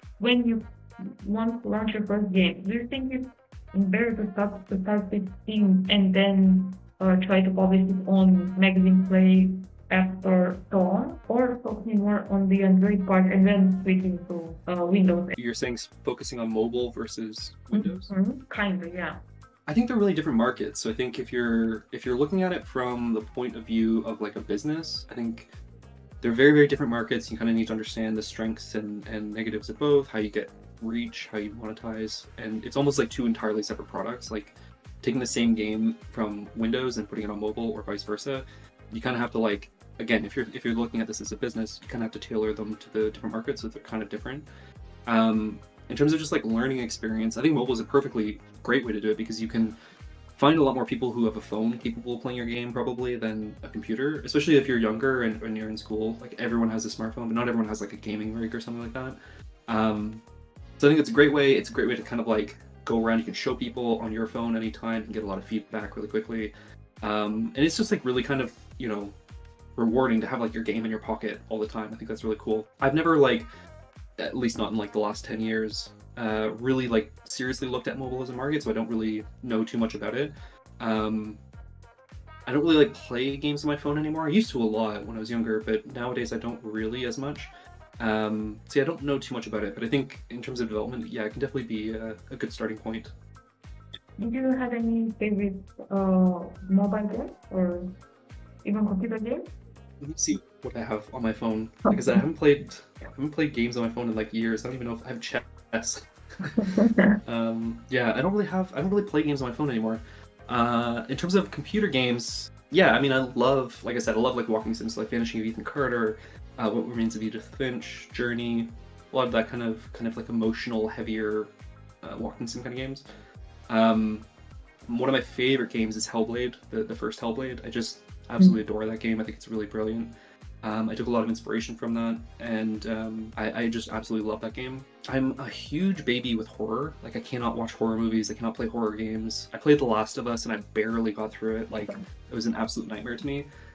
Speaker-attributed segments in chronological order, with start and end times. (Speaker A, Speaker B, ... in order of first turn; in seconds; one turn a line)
Speaker A: 0.2-15.3
Speaker B: 15.3-18.1
Speaker A: 17.7-19.2
Speaker B: 19.7-25.5
Speaker B: 26.2-44.5
Speaker B: 45.0-49.8
Speaker B: 50.4-60.2
Speaker B: 60.8-69.2
Speaker B: 69.8-73.5
Speaker B: 74.2-81.4
Speaker B: 82.5-93.1
Speaker A: 94.2-97.9
Speaker A: 98.6-99.4
Speaker B: 100.0-106.7
Speaker A: 101.9-102.2
Speaker A: 106.6-107.2
Speaker B: 107.2-123.0
Speaker B: 123.7-124.3
Speaker B: 124.9-143.5